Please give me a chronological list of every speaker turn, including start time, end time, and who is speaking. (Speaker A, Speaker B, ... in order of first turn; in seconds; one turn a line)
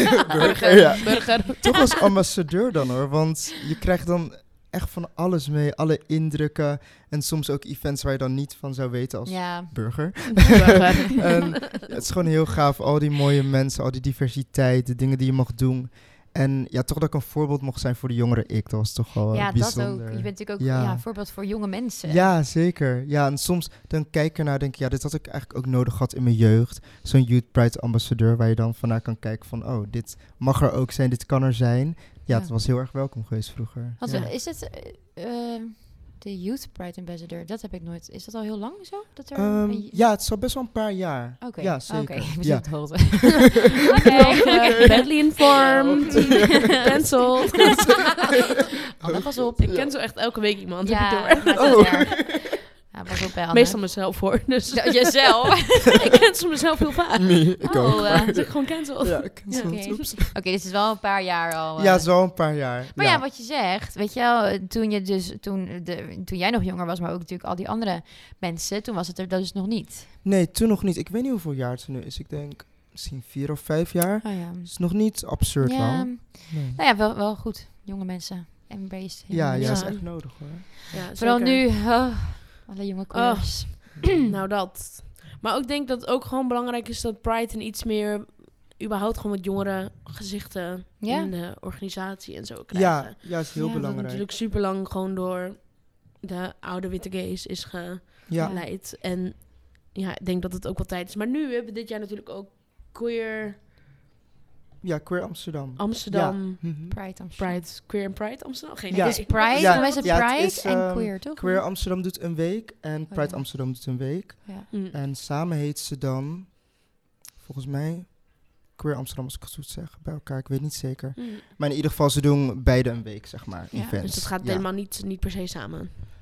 Speaker A: 0.3-21.1
Speaker B: 0.3-1.4
Speaker C: 0.4-1.8
Speaker B: 9.2-10.1
Speaker C: 10.3-11.8
Speaker B: 19.3-22.3
Speaker A: 22.0-34.3
Speaker B: 32.3-32.5
Speaker B: 34.0-40.1
Speaker A: 39.3-43.5
Speaker B: 41.4-47.9
Speaker C: 44.0-47.9
Speaker A: 44.0-50.0
Speaker C: 49.0-52.2
Speaker B: 50.8-56.1
Speaker A: 51.5-52.4
Speaker C: 53.5-60.1
Speaker A: 57.1-60.3
Speaker B: 57.6-58.5
Speaker B: 59.5-70.1
Speaker A: 61.8-63.2
Speaker A: 70.2-76.8
Speaker B: 74.2-80.3
Speaker A: 79.3-80.7
Speaker C: 79.6-81.7
Speaker B: 81.1-84.1
Speaker C: 83.1-103.6
Speaker B: 91.0-91.3
Speaker A: 92.7-94.3
Speaker B: 93.5-93.8
Speaker A: 98.3-98.6
Speaker B: 98.4-98.7
Speaker A: 104.8-107.0
Speaker C: 105.8-110.2
Speaker B: 106.9-107.7
Speaker A: 108.9-124.7
Speaker B: 108.9-111.6
Speaker B: 113.1-113.5
Speaker C: 114.7-115.0
Speaker C: 121.2-121.5
Speaker B: 123.7-124.0
Speaker C: 124.0-125.9